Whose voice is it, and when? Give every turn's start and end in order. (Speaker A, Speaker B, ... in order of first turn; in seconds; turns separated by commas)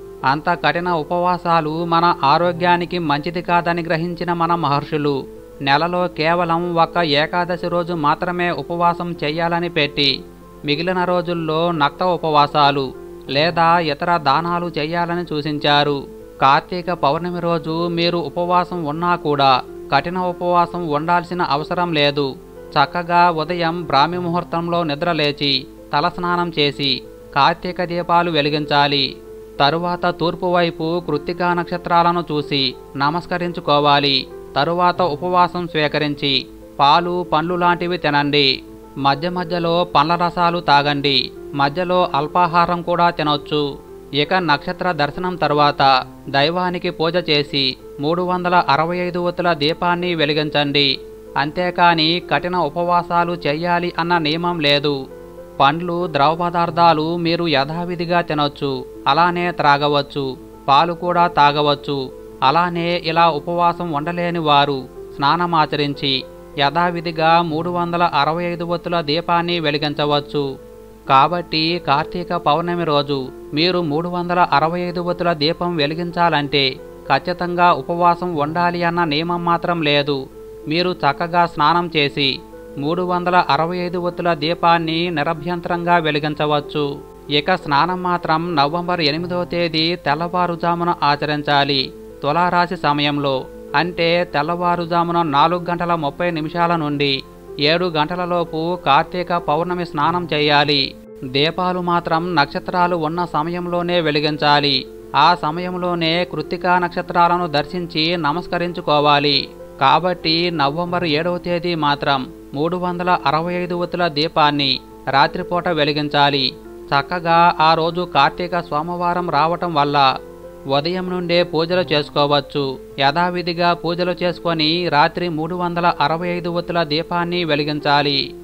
Speaker A: 0.3-10.1, Speaker A: 10.7-29.1, Speaker A: 29.6-38.5, Speaker A: 39.1-43.6, Speaker A: 44.2-50.9, Speaker A: 51.4-55.0, Speaker A: 55.6-70.5, Speaker A: 71.1-80.2, Speaker A: 80.7-82.3, Speaker A: 82.8-86.9, Speaker A: 87.4-97.1, Speaker A: 97.7-100.8, Speaker A: 101.3-120.0, Speaker A: 120.7-128.2